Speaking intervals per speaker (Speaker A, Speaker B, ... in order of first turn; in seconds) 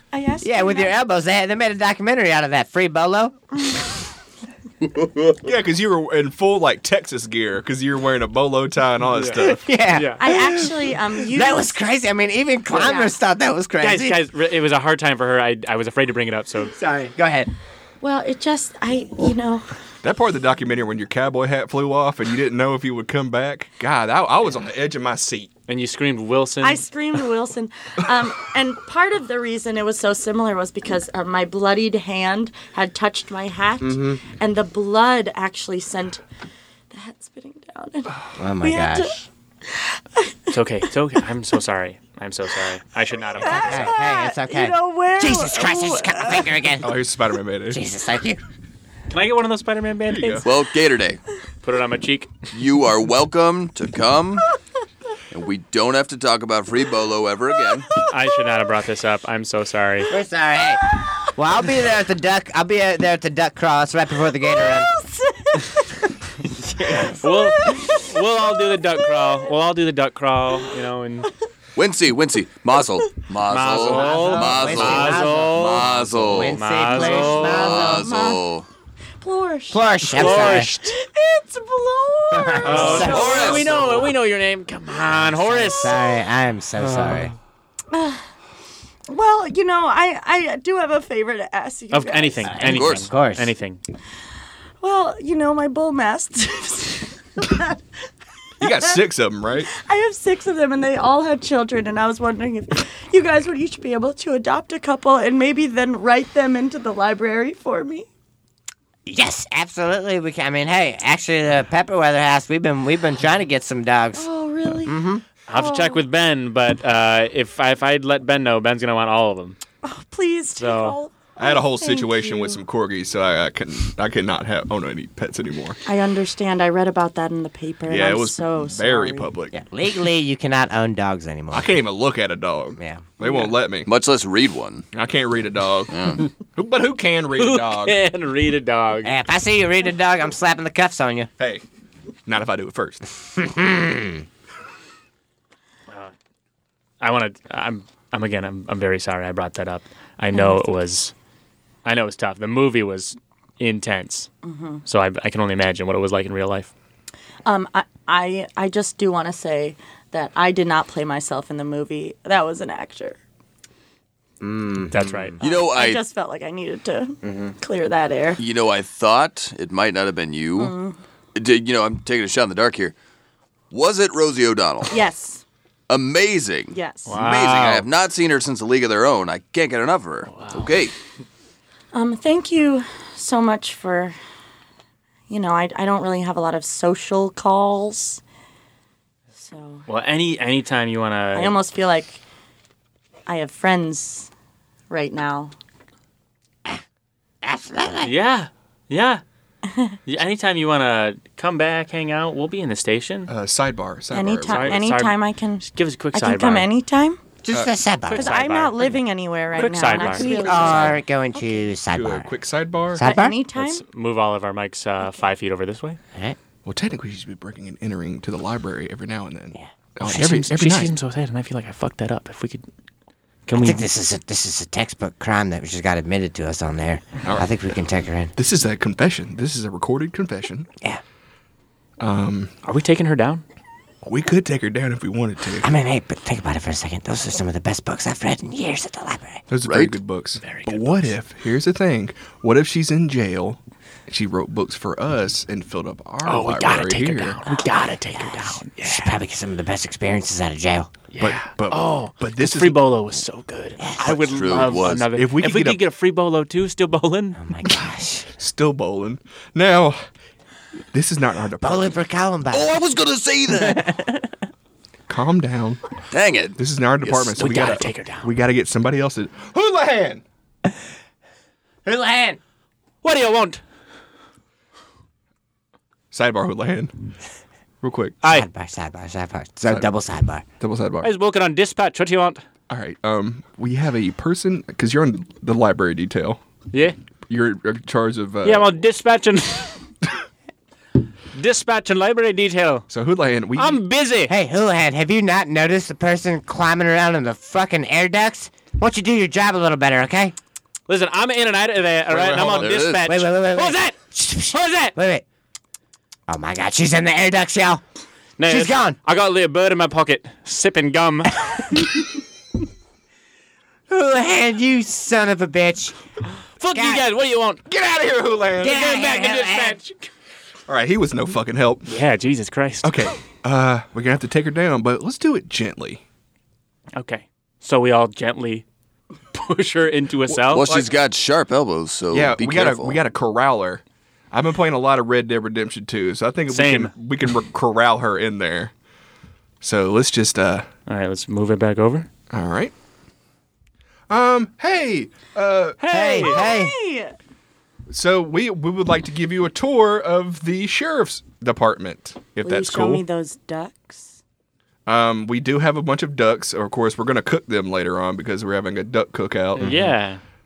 Speaker A: 0.1-0.9, 10.2-11.7, 12.7-13.1, 18.0-19.7, 26.6-36.2, 36.9-40.6, 43.4-46.8, 60.9-61.3, 64.5-66.0, 66.9-68.2, 77.8-78.4, 79.2-84.1, 85.6-86.0, 87.9-88.2, 89.1-92.6, 94.8-97.8, 98.6-99.0, 99.7-108.1, 114.2-115.0, 115.5-116.0, 119.8-122.6, 125.8-129.3, 150.3-150.7, 154.4-154.8, 157.4-163.2, 165.4-168.4, 170.6-171.0, 174.9-175.4, 176.7-177.2, 181.9-184.2, 185.3-188.2, 189.3-189.8, 191.3-192.2, 193.3-194.3, 194.9-195.5, 199.7-199.9, 204.1-207.2, 208.1-211.7, 213.0-213.8, 346.2-347.1, 352.4-354.1
Speaker B: 0.4-3.3, 9.4-14.2, 16.7-17.5, 33.8-34.2, 38.4-39.2, 43.4-47.0, 47.7-48.4, 60.1-64.9, 66.6-67.2, 73.7-78.1, 79.7-80.7, 82.3-83.6, 85.0-87.3, 92.5-93.5, 109.0-114.2, 114.8-115.2, 129.5-131.7, 132.8-133.1, 139.0-141.3, 143.4-144.2, 164.4-165.3, 167.2-167.5, 197.4-198.1, 207.4-208.3, 209.9-212.3, 212.9-213.3, 223.5-228.3, 235.6-239.4, 247.4-250.9, 253.8-254.3, 257.4-258.3, 261.6-262.7, 263.5-264.3, 271.8-272.4, 278.2-280.4, 294.3-300.3, 303.0-305.2, 306.3-307.8, 308.5-309.0, 313.9-315.9, 316.7-317.0, 318.6-319.8, 345.9-346.7
Speaker C: 5.3-9.6, 20.0-25.5, 46.8-47.8, 50.1-50.5, 98.6-99.7, 121.4-125.8, 127.9-129.6, 131.5-133.9, 134.9-136.0, 136.6-137.9, 142.2-143.0, 203.3-204.9, 211.9-213.0, 216.6-220.9, 228.3-230.7, 232.0-232.5, 234.0-235.7, 239.5-247.4, 251.2-252.8, 255.1-255.8, 258.4-260.0, 260.9-261.9, 265.1-265.8, 266.6-270.2, 276.1-276.9, 277.8-278.2, 280.6-281.1, 282.7-286.4, 287.3-288.7, 292.9-293.8, 302.1-302.7, 317.7-318.8, 320.7-321.9, 322.8-326.0, 330.3-330.9, 332.1-338.7, 339.6-340.7, 342.3-342.7, 344.1-345.8, 347.9-353.0, 354.9-359.9
Speaker D: 9.1-10.2, 13.8-16.7, 25.7-26.9, 40.5-43.8, 49.1-50.5, 51.6-52.3, 58.1-60.1, 67.0-71.3, 73.5-77.8, 80.1-81.0, 82.6-86.0, 91.9-93.8, 115.5-119.6, 120.6-121.0, 137.3-139.1, 147.0-151.1, 151.8-154.3, 154.9-156.7, 164.9-165.4, 177.1-177.8, 180.3-180.8, 189.9-191.5, 198.0-199.2, 200.1-203.3, 204.5-206.7, 208.1-209.0, 209.5-211.0, 213.5-216.0, 220.0-222.6, 223.5-223.9, 232.6-233.4, 240.4-241.1, 246.2-249.2, 251.1-257.4, 267.0-268.3, 273.0-273.6, 278.2-278.5, 281.0-282.4, 288.4-289.8, 291.3-292.9, 293.5-294.3, 300.9-303.9, 304.5-304.9, 308.4-311.7, 316.6-317.6, 318.6-320.0, 321.9-322.9, 326.9-328.6, 329.3-330.6, 336.5-336.9, 340.9-342.1, 345.8-346.4, 359.6-360.2
Speaker E: 50.4-51.2, 52.5-54.5, 55.3-57.9, 71.8-78.7, 82.7-83.8, 92.6-93.0, 133.8-134.8, 135.9-136.2, 165.4-166.0, 168.4-170.7, 171.3-172.9, 173.7-174.9, 175.9-180.9, 239.6-240.0, 254.0-255.1, 262.5-263.9, 266.1-266.6, 302.6-303.0, 330.5-333.0